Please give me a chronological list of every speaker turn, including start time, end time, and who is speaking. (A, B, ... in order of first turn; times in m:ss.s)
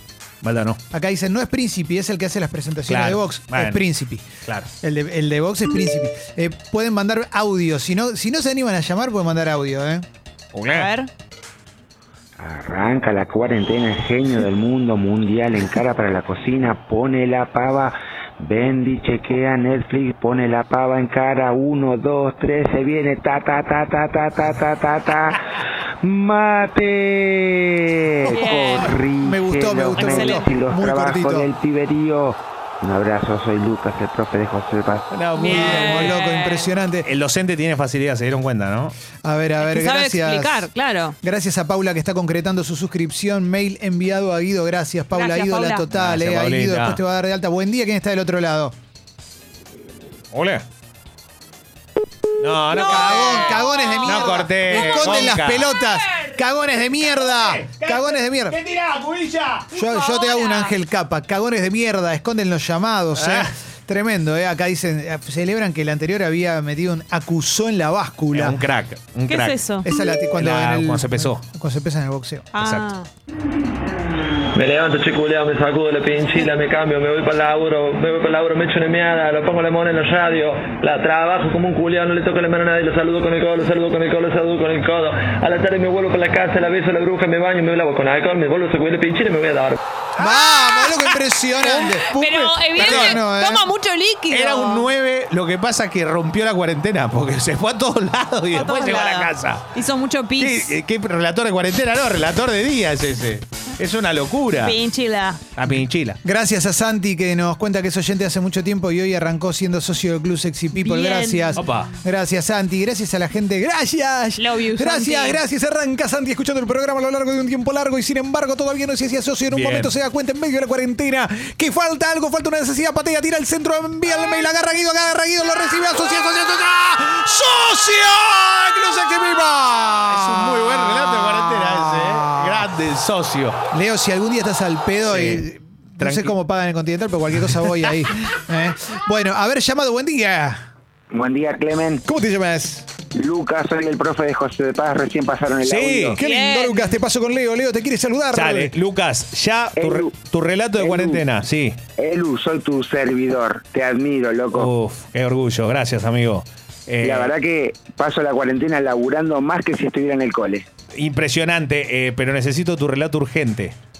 0:00.4-0:00.8 A
0:00.9-0:04.3 B
0:02.9-0:03.8 A
0:04.4-0:04.7 A
0:04.8-0:10.1 B
0:10.5-0:10.9 A
0:10.7-0:11.1 C
0:12.4-0:25.4 D
0:26.0-0:35.1 D
0:28.3-0:28.9 C
0:28.3-0:31.5 B
0:30.0-0:30.5 C
0:35.1-0:36.2 A
0:35.4-0:36.7 C
0:35.4-0:37.1 B
0:37.0-0:39.0 A
0:39.2-0:40.7 B
0:39.6-0:41.2 C
0:41.2-0:48.7 B
0:45.1-0:45.8 C
0:45.9-0:47.0 A
0:50.3-0:50.6 A
0:52.4-0:55.7 A
0:52.7-0:55.3 C
0:52.8-0:58.6 B
0:57.2-0:59.7 A
0:59.7-1:08.6 B
0:59.8-1:00.7 C
1:03.2-1:03.5 A
1:08.3-1:09.6 A
1:09.3-1:09.9 C
1:09.8-1:12.5 B
1:10.4-1:11.4 A
1:12.6-1:13.1 C
1:12.6-1:12.9 A
1:14.5-1:29.8 E
1:30.2-1:33.7 B
1:31.7-1:34.9 C
1:32.8-1:33.2 A
1:34.3-1:39.7 A
1:38.5-1:40.8 C
1:40.4-1:44.8 A
1:44.6-1:45.4 C
1:45.6-1:46.2 A
1:46.2-2:12.7 B
1:50.8-1:51.6 C
1:51.6-1:51.9 A
1:54.4-1:55.4 C
1:59.5-1:59.9 A
2:10.1-2:13.6 A
2:13.7-2:20.7 B
2:15.1-2:15.4 A
2:16.0-2:16.4 A
2:21.1-2:22.0 D
2:22.1-2:22.9 B
2:23.1-2:26.2 D
2:25.6-2:26.2 A
2:26.2-2:28.7 B
2:26.2-2:27.0 C
2:28.3-2:31.8 A
2:29.8-2:30.2 D
2:30.8-2:31.2 D
2:32.0-2:34.7 D
2:34.5-2:37.3 A
2:37.0-2:40.7 D
2:41.0-2:43.8 A